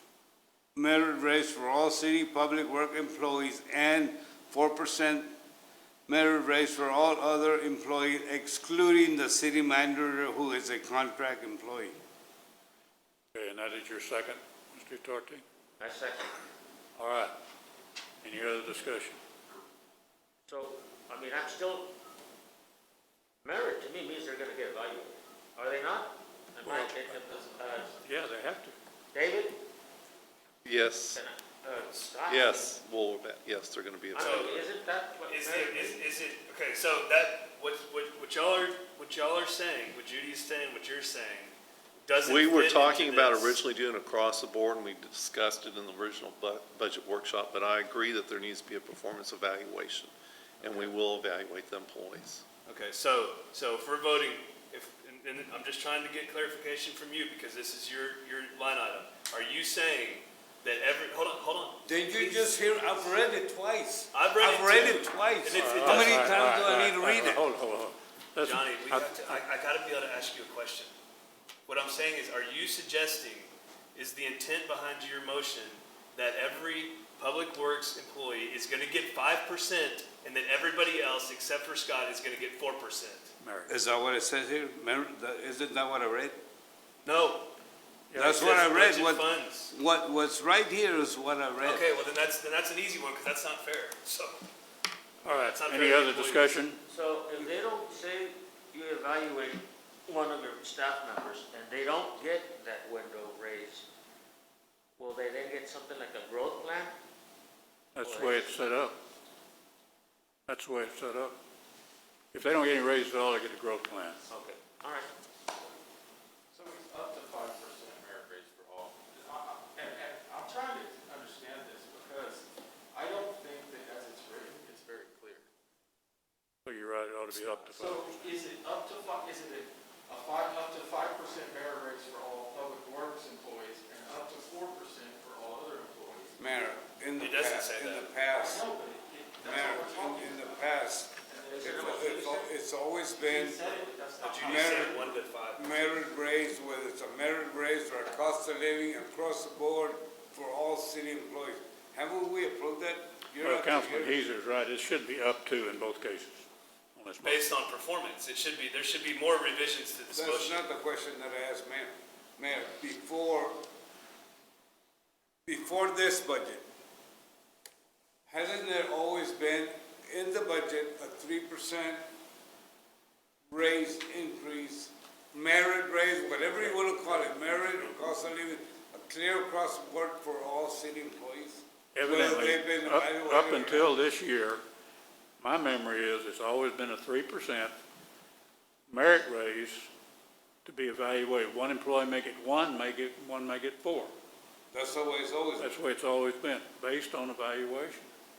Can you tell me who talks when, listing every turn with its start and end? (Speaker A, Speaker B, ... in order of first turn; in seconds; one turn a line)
Speaker A: 0.7-5.3
Speaker A: 6.1-12.0
Speaker B: 13.3-15.4
Speaker C: 15.8-16.4
Speaker B: 17.0-17.3
Speaker B: 18.2-19.2
Speaker C: 20.5-21.9
Speaker C: 23.4-27.9
Speaker B: 26.6-27.3
Speaker D: 27.3-27.8
Speaker B: 28.0-28.8
Speaker C: 29.1-29.6
Speaker E: 30.6-31.2
Speaker C: 31.1-32.8
Speaker E: 32.3-34.4
Speaker C: 34.1-36.0
Speaker F: 34.2-34.7
Speaker F: 35.3-43.6
Speaker E: 42.2-52.4
Speaker F: 52.7-63.1
Speaker A: 61.8-67.4
Speaker F: 64.1-66.5
Speaker B: 65.6-69.4
Speaker F: 68.4-70.9
Speaker F: 71.7-83.3
Speaker B: 83.4-83.7
Speaker A: 83.7-86.4
Speaker F: 87.0-87.5
Speaker B: 88.1-88.5
Speaker A: 88.2-91.9
Speaker F: 88.2-89.7
Speaker F: 91.6-94.4
Speaker F: 95.2-96.5
Speaker B: 95.2-96.8
Speaker C: 96.9-103.8
Speaker C: 105.0-107.0
Speaker B: 108.0-109.0
Speaker C: 108.0-108.6
Speaker B: 110.5-111.4
Speaker B: 112.3-114.2
Speaker C: 114.3-115.1
Speaker D: 116.5-125.5
Speaker B: 126.7-128.4
Speaker C: 127.3-127.9
Speaker D: 127.8-136.3
Speaker A: 136.4-138.7
Speaker F: 137.2-138.1
Speaker D: 138.4-140.6
Speaker A: 139.4-143.6
Speaker D: 141.3-142.0
Speaker C: 141.4-142.5
Speaker D: 143.2-145.0
Speaker F: 144.2-145.9
Speaker A: 144.4-154.2
Speaker B: 153.4-157.5
Speaker F: 157.2-160.6
Speaker A: 160.1-163.6
Speaker A: 165.5-166.7
Speaker A: 168.3-172.0
Speaker A: 173.5-183.9
Speaker B: 176.6-178.1
Speaker B: 181.9-184.6
Speaker B: 185.4-187.8
Speaker B: 188.9-189.9
Speaker B: 190.7-194.1
Speaker A: 194.7-195.8
Speaker B: 195.6-198.1